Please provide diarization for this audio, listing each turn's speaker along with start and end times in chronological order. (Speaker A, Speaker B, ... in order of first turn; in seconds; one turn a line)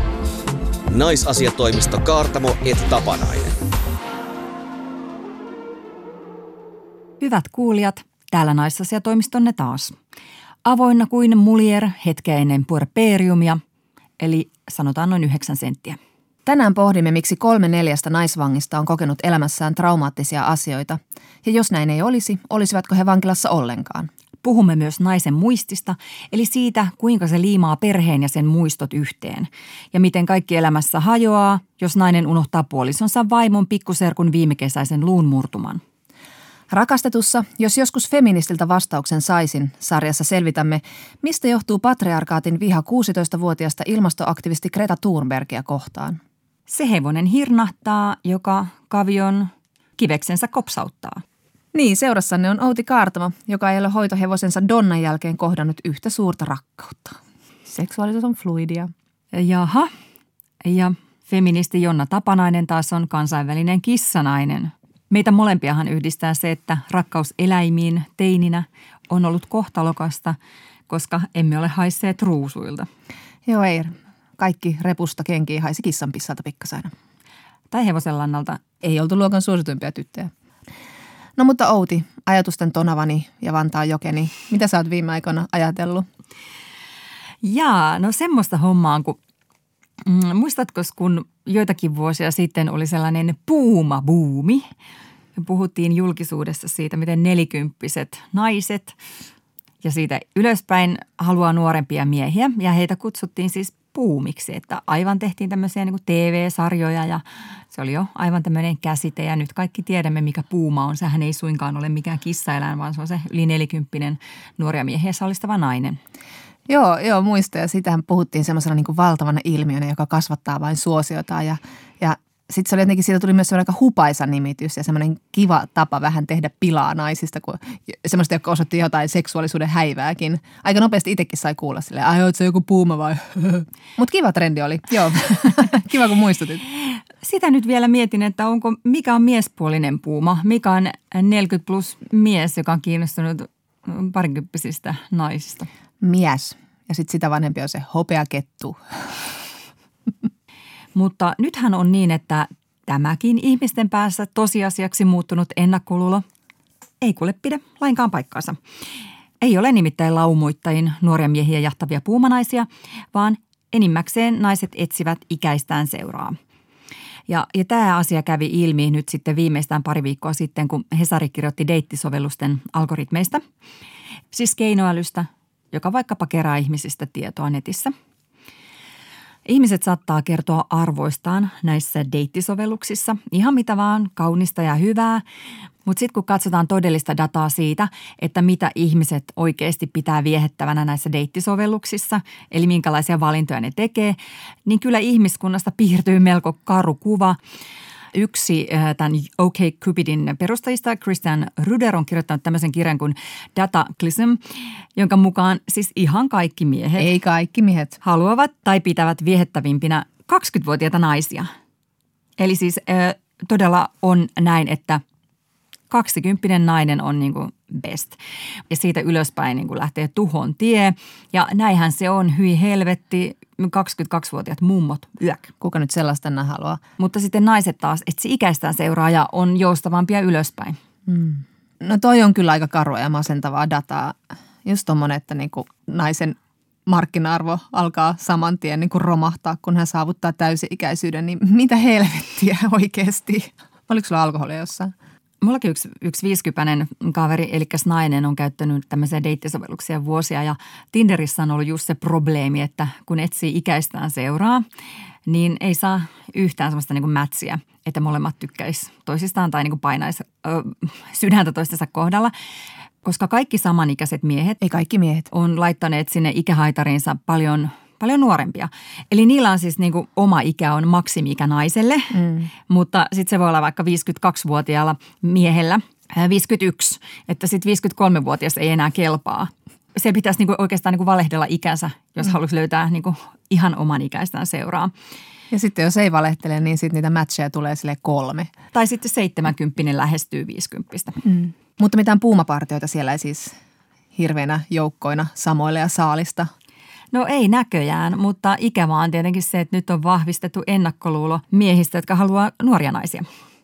Speaker A: 0.9-3.6
Speaker B: 7.2-9.9
Speaker B: 10.6-13.6
Speaker B: 14.2-16.0
Speaker C: 16.4-24.1
Speaker B: 24.4-35.8
Speaker C: 36.7-46.2
Speaker B: 46.7-51.2
Speaker C: 51.7-58.9
Speaker B: 59.3-59.9
Speaker B: 60.6-70.4
Speaker B: 70.9-72.9
Speaker C: 73.5-76.9
Speaker B: 77.7-78.6
Speaker C: 78.8-80.3
Speaker C: 81.4-86.0
Speaker B: 87.4-89.2
Speaker B: 90.0-94.7
Speaker B: 95.4-99.0
Speaker B: 99.8-116.0
Speaker C: 116.7-136.6
Speaker B: 137.2-145.7
Speaker C: 146.0-149.3
Speaker B: 150.9-156.2
Speaker B: 157.0-158.6
Speaker B: 159.4-166.4
Speaker B: 167.3-173.4
Speaker B: 174.3-177.9
Speaker B: 179.4-185.2
Speaker B: 185.8-197.4
Speaker B: 198.1-204.4
Speaker B: 204.9-207.1
Speaker C: 207.0-208.0
Speaker B: 208.0-211.5
Speaker B: 212.4-215.0
Speaker B: 215.9-218.2
Speaker B: 218.7-225.5
Speaker C: 225.6-226.8
Speaker B: 227.0-230.8
Speaker C: 231.1-236.3
Speaker C: 236.9-244.9
Speaker B: 245.4-254.6
Speaker B: 255.3-262.3
Speaker B: 263.0-264.6
Speaker C: 264.6-265.3
Speaker B: 265.3-284.9
Speaker C: 272.1-272.4
Speaker C: 285.5-288.5
Speaker B: 288.7-291.2
Speaker C: 291.2-293.5
Speaker C: 294.1-296.5
Speaker B: 297.1-303.3